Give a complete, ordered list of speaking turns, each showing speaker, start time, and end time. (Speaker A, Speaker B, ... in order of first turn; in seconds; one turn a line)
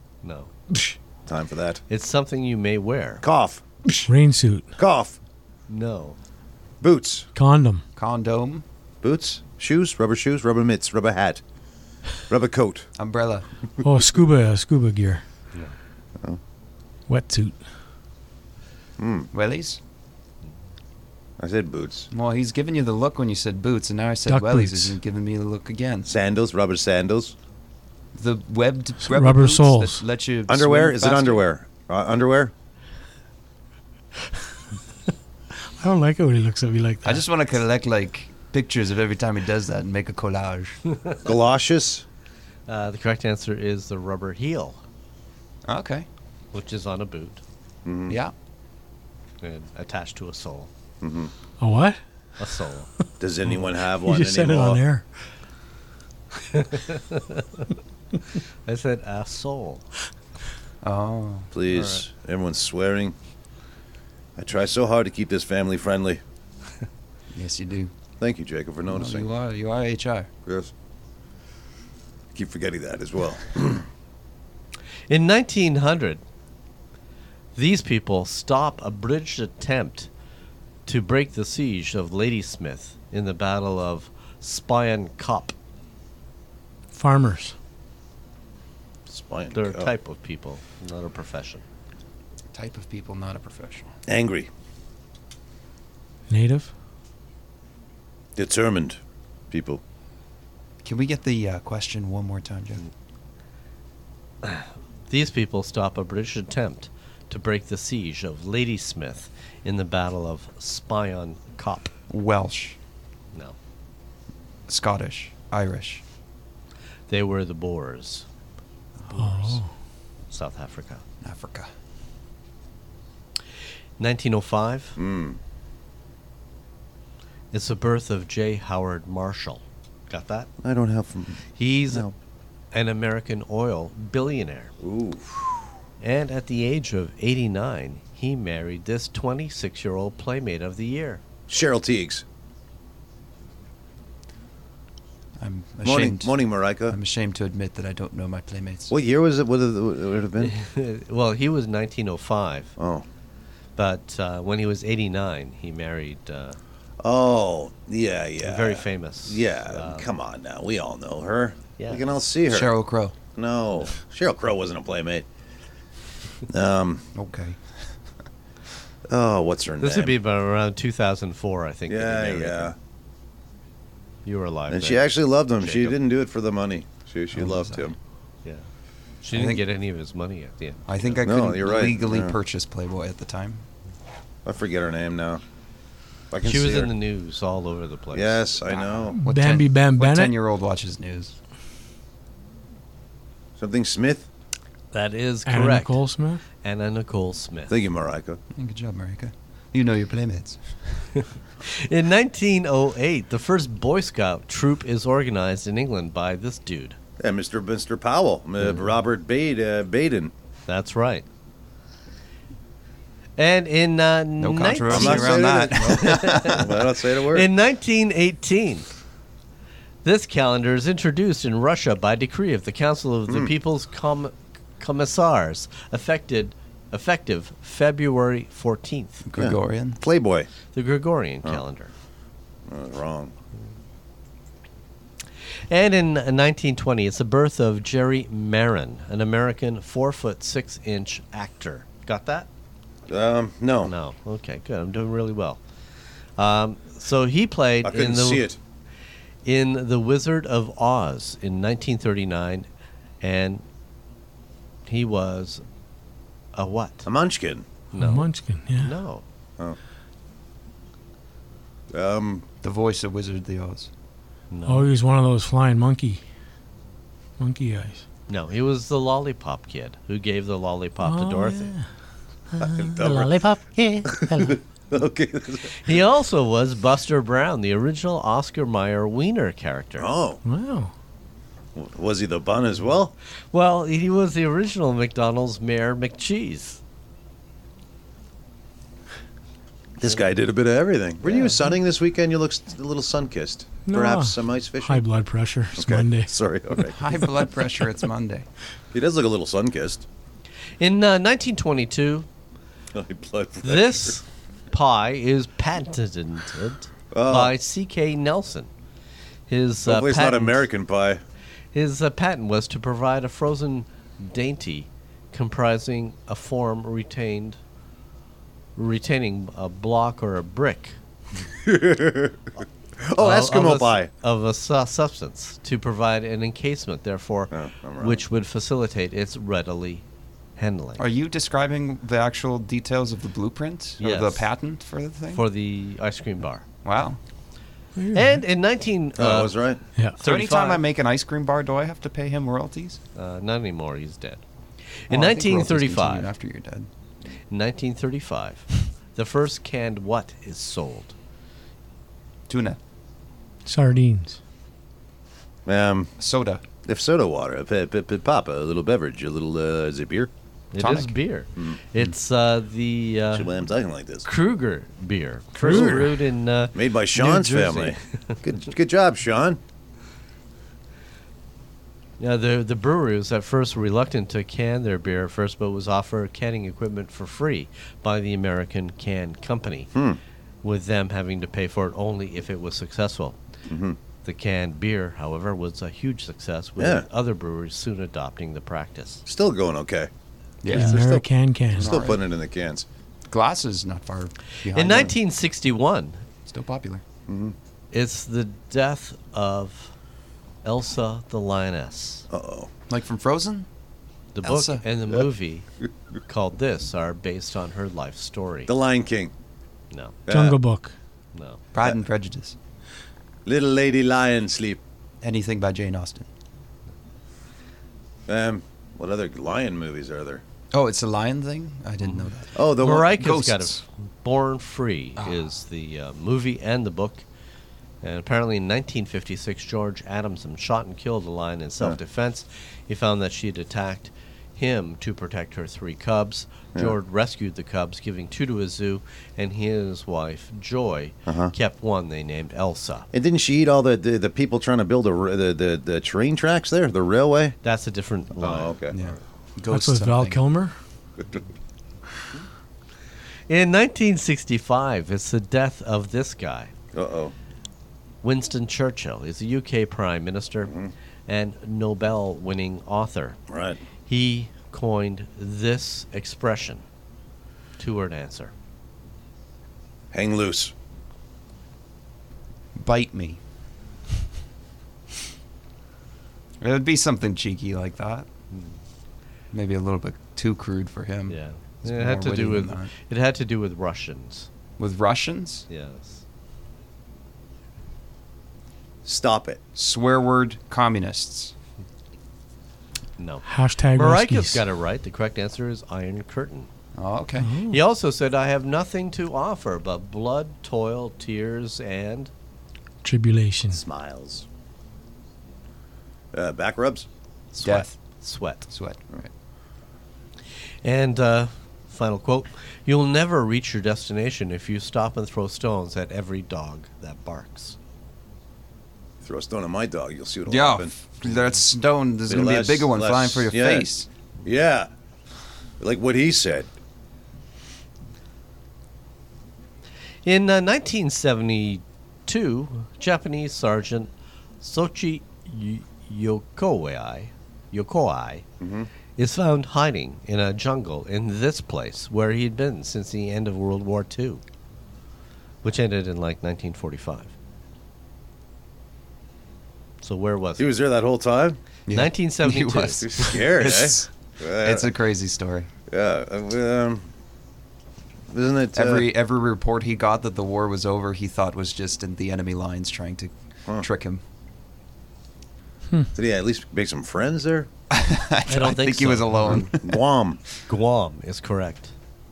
Speaker A: 0.2-0.5
Speaker B: 0.7-1.8
Speaker A: 1.9-3.2
Speaker B: 3.2-4.1
Speaker C: 4.0-4.7
Speaker B: 4.8-5.2
Speaker A: 5.7-6.2
Speaker B: 6.8-7.3
Speaker C: 7.3-7.8
Speaker D: 8.0-8.6
Speaker B: 9.0-11.4
Speaker B: 12.3-12.9
Speaker D: 12.9-13.5
Speaker C: 13.8-15.2
Speaker C: 17.1-17.6
Speaker B: 19.0-19.3
Speaker D: 19.3-19.8
Speaker B: 21.4-22.1
Speaker D: 22.1-26.1
Speaker C: 24.3-25.0
Speaker B: 26.1-27.3
Speaker D: 28.1-31.4
Speaker C: 29.0-30.0
Speaker B: 30.5-32.5
Speaker C: 35.6-37.2
Speaker D: 37.0-40.8
Speaker B: 41.2-42.0
Speaker A: 42.7-44.8
Speaker D: 45.7-46.1
Speaker A: 46.5-47.4
Speaker B: 47.8-48.2
Speaker D: 48.1-48.3
Speaker A: 49.4-50.7
Speaker B: 51.0-51.3
Speaker C: 51.6-52.0
Speaker A: 52.4-52.9
Speaker B: 53.2-54.8
Speaker C: 53.6-55.1
Speaker A: 56.4-57.7
Speaker A: 58.6-59.8
Speaker D: 60.8-61.9
Speaker B: 61.5-63.2
Speaker B: 64.4-66.2
Speaker D: 67.3-67.9
Speaker B: 68.2-69.3
Speaker D: 68.8-70.3
Speaker B: 70.5-70.7
Speaker B: 72.3-73.8
Speaker A: 75.1-76.2
Speaker A: 77.5-80.1
Speaker A: 80.8-85.5
Speaker C: 86.9-87.6
Speaker B: 89.1-89.9
Speaker A: 89.5-91.6
Speaker D: 92.5-93.9
Speaker B: 94.1-94.5
Speaker C: 96.3-96.7
Speaker B: 98.3-99.0
Speaker B: 99.5-99.8
Speaker D: 100.8-102.8
Speaker A: 104.4-111.9
Speaker D: 112.1-112.8
Speaker D: 114.7-116.0
Speaker A: 117.1-118.2
Speaker D: 119.0-119.4
Speaker C: 119.2-119.7
Speaker A: 120.3-121.0
Speaker D: 121.2-121.7
Speaker A: 124.0-125.0
Speaker B: 125.0-125.4
Speaker A: 127.5-130.5
Speaker B: 130.6-132.1
Speaker A: 131.6-132.1
Speaker A: 132.7-134.7
Speaker B: 134.8-135.7
Speaker A: 136.0-141.2
Speaker B: 141.5-142.2
Speaker D: 145.4-148.9
Speaker B: 145.8-147.0
Speaker B: 148.9-150.5
Speaker A: 150.4-152.7
Speaker B: 152.8-153.1
Speaker A: 153.8-156.6
Speaker B: 157.0-162.7
Speaker A: 158.4-160.1
Speaker A: 161.8-162.0
Speaker D: 162.5-163.2
Speaker B: 163.3-165.2
Speaker B: 166.5-167.1
Speaker D: 167.2-167.7
Speaker B: 169.1-170.2
Speaker A: 169.8-172.7
Speaker B: 171.9-172.7
Speaker A: 174.2-176.0
Speaker B: 174.7-177.9
Speaker D: 177.3-177.9
Speaker A: 179.2-181.2
Speaker D: 179.3-179.6
Speaker D: 180.8-183.7
Speaker B: 181.2-182.3
Speaker B: 184.4-185.4
Speaker B: 186.3-186.9
Speaker A: 186.4-188.4
Speaker B: 188.1-189.2
Speaker D: 188.8-191.3
Speaker C: 189.2-190.3
Speaker B: 193.6-194.3
Speaker A: 194.9-196.0
Speaker C: 195.4-196.4
Speaker A: 196.6-197.7
Speaker B: 197.7-198.4
Speaker D: 198.5-201.1
Speaker A: 201.2-207.0
Speaker B: 207.2-210.3
Speaker A: 210.7-211.2
Speaker A: 213.4-218.9
Speaker D: 214.4-216.6
Speaker B: 214.9-217.5
Speaker A: 220.0-229.2
Speaker D: 229.2-230.0
Speaker B: 229.3-230.5
Speaker A: 230.7-231.9
Speaker B: 232.7-233.3
Speaker A: 235.7-242.5
Speaker B: 243.1-243.9
Speaker A: 243.8-245.6
Speaker A: 246.4-248.5
Speaker B: 247.8-248.6
Speaker A: 249.4-252.7
Speaker A: 253.2-253.6
Speaker A: 254.8-255.6
Speaker A: 256.5-257.1
Speaker B: 257.1-257.7
Speaker A: 257.9-259.2
Speaker C: 257.9-258.9
Speaker B: 261.9-262.4
Speaker D: 262.6-263.9
Speaker A: 264.5-264.9
Speaker C: 264.7-266.2
Speaker C: 267.4-268.0
Speaker A: 268.3-271.7
Speaker C: 271.0-271.8
Speaker C: 272.5-274.6
Speaker B: 272.6-273.5
Speaker B: 274.1-275.9
Speaker A: 275.8-280.1
Speaker B: 280.0-280.4
Speaker C: 280.4-280.9
Speaker B: 281.7-283.1
Speaker A: 283.5-286.8
Speaker B: 290.0-295.0
Speaker C: 293.9-296.3
Speaker B: 295.8-297.0
Speaker D: 296.9-298.4
Speaker B: 298.9-300.1
Speaker A: 300.8-302.3
Speaker B: 302.9-304.2
Speaker A: 303.6-308.7
Speaker B: 307.1-307.5
Speaker A: 309.5-310.7
Speaker B: 309.8-311.2
Speaker A: 311.7-317.6
Speaker A: 318.8-320.9
Speaker B: 321.5-324.1
Speaker A: 323.2-330.0
Speaker B: 327.5-328.2
Speaker A: 330.6-331.0
Speaker D: 331.0-335.4
Speaker A: 334.0-334.5
Speaker A: 335.3-336.6
Speaker D: 336.8-337.2
Speaker C: 337.9-338.4
Speaker A: 338.1-340.8
Speaker B: 339.2-339.8
Speaker D: 340.2-343.0
Speaker A: 343.2-344.4
Speaker A: 345.1-346.3
Speaker D: 345.1-346.9
Speaker A: 347.5-351.1
Speaker D: 352.5-352.8
Speaker C: 353.6-354.4
Speaker B: 355.7-356.1
Speaker D: 356.2-356.6
Speaker B: 356.8-360.3
Speaker A: 360.7-363.5
Speaker D: 360.8-361.1
Speaker B: 363.3-364.3
Speaker A: 364.2-368.4
Speaker B: 365.6-366.2
Speaker C: 365.6-366.1
Speaker B: 366.7-369.6
Speaker A: 372.2-379.9
Speaker A: 380.6-383.4
Speaker B: 383.7-383.9
Speaker A: 384.2-389.2
Speaker B: 386.8-387.1
Speaker B: 389.2-390.1
Speaker D: 390.6-391.1
Speaker B: 390.7-391.2
Speaker C: 390.7-392.0
Speaker D: 391.7-392.2
Speaker B: 391.8-392.9
Speaker D: 393.3-395.1
Speaker A: 394.7-396.2
Speaker D: 396.4-397.0
Speaker B: 397.3-397.6
Speaker A: 397.9-399.9
Speaker A: 400.6-402.3
Speaker B: 402.3-402.7
Speaker D: 402.9-403.7
Speaker A: 404.3-405.7
Speaker D: 404.4-404.8
Speaker A: 406.3-408.7
Speaker B: 408.7-409.3
Speaker A: 409.9-410.2
Speaker B: 410.3-410.6
Speaker C: 410.3-410.9
Speaker A: 411.3-411.6
Speaker D: 411.7-412.6
Speaker B: 413.4-414.8
Speaker D: 415.2-416.3
Speaker B: 418.3-420.4
Speaker D: 420.7-423.8
Speaker A: 422.1-427.2
Speaker B: 422.6-423.3
Speaker D: 425.2-425.4
Speaker A: 428.0-443.1
Speaker B: 441.3-441.5
Speaker B: 443.1-447.6
Speaker A: 447.6-449.1
Speaker B: 448.4-448.9
Speaker D: 448.9-450.4
Speaker C: 449.7-450.7
Speaker A: 453.5-456.7
Speaker B: 456.9-457.3
Speaker A: 458.2-460.7
Speaker A: 461.3-463.4
Speaker B: 463.5-463.8
Speaker A: 464.1-466.8
Speaker A: 467.8-468.5
Speaker B: 470.1-470.7
Speaker D: 472.7-473.4
Speaker D: 476.6-478.3
Speaker D: 479.5-482.9
Speaker A: 481.3-484.5
Speaker D: 484.8-485.7
Speaker A: 485.7-486.2
Speaker B: 489.1-489.6
Speaker D: 489.7-491.5
Speaker A: 493.2-496.7
Speaker C: 493.5-494.6
Speaker D: 496.9-497.6
Speaker C: 497.4-497.8
Speaker A: 497.7-502.3
Speaker C: 503.0-503.8
Speaker B: 503.7-504.4
Speaker B: 506.3-507.1
Speaker A: 507.5-508.7
Speaker D: 507.6-507.9
Speaker D: 508.7-509.3
Speaker A: 510.8-517.8
Speaker B: 519.2-520.9
Speaker D: 520.5-524.1
Speaker B: 522.3-523.9
Speaker B: 524.4-524.9
Speaker B: 525.8-526.7
Speaker A: 530.2-534.1
Speaker A: 534.6-538.5
Speaker B: 538.6-538.9
Speaker A: 539.2-544.4
Speaker A: 545.6-547.3
Speaker A: 550.0-550.7
Speaker B: 550.6-551.6
Speaker D: 551.9-555.7
Speaker A: 551.9-553.4
Speaker B: 553.0-554.9
Speaker B: 555.9-557.1
Speaker B: 558.3-559.1
Speaker D: 558.8-564.2
Speaker B: 566.1-567.7
Speaker D: 567.9-570.0
Speaker A: 568.5-569.7
Speaker B: 569.5-570.4
Speaker A: 570.7-571.9